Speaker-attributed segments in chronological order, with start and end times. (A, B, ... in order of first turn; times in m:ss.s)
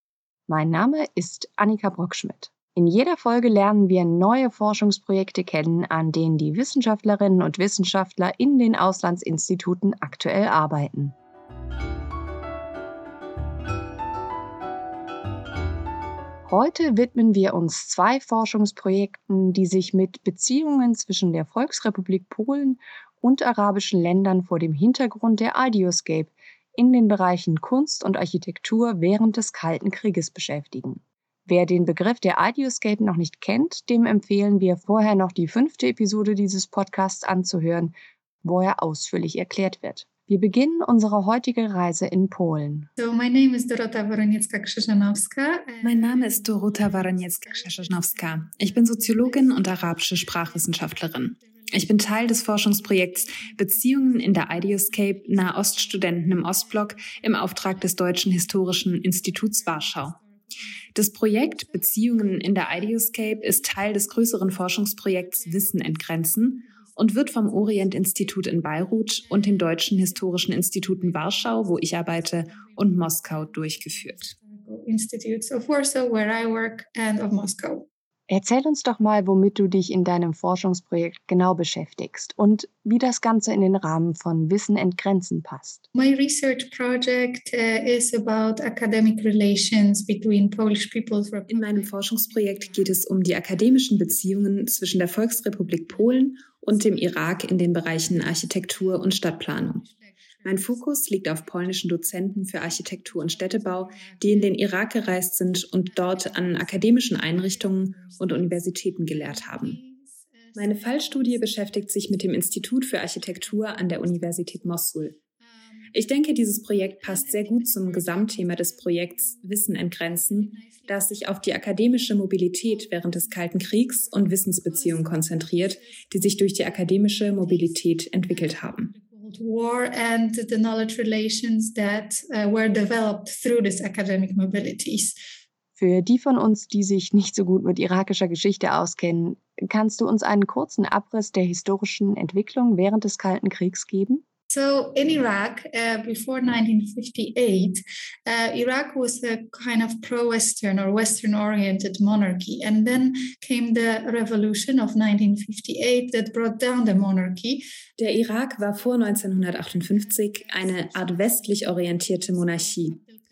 0:00.5-0:11.1 A
0:16.5-0:42.9 A
0:43.0-0:51.4 B
0:45.8-1:00.2 C
0:53.3-0:53.9 B
0:54.5-0:55.7 B
0:56.3-0:58.2 B
1:00.9-1:14.3 C
1:08.0-1:08.5 B
1:09.4-1:17.8 B
1:18.3-1:25.8 A
1:25.9-1:31.9 B
1:31.5-1:39.8 C
1:32.4-1:32.7 B
1:39.8-1:40.6 B
1:40.4-1:49.8 C
1:47.0-1:48.4 B
1:49.1-1:49.9 B
1:50.5-1:51.2 B
1:50.5-1:55.2 C
1:55.9-2:08.9 C
1:57.3-1:59.0 B
2:00.5-2:01.2 B
2:02.9-2:04.0 B
2:06.2-2:06.6 B
2:07.1-2:15.2 B
2:15.8-2:24.2 A
2:24.5-2:37.6 B
2:38.0-2:43.0 C
2:41.0-2:42.0 B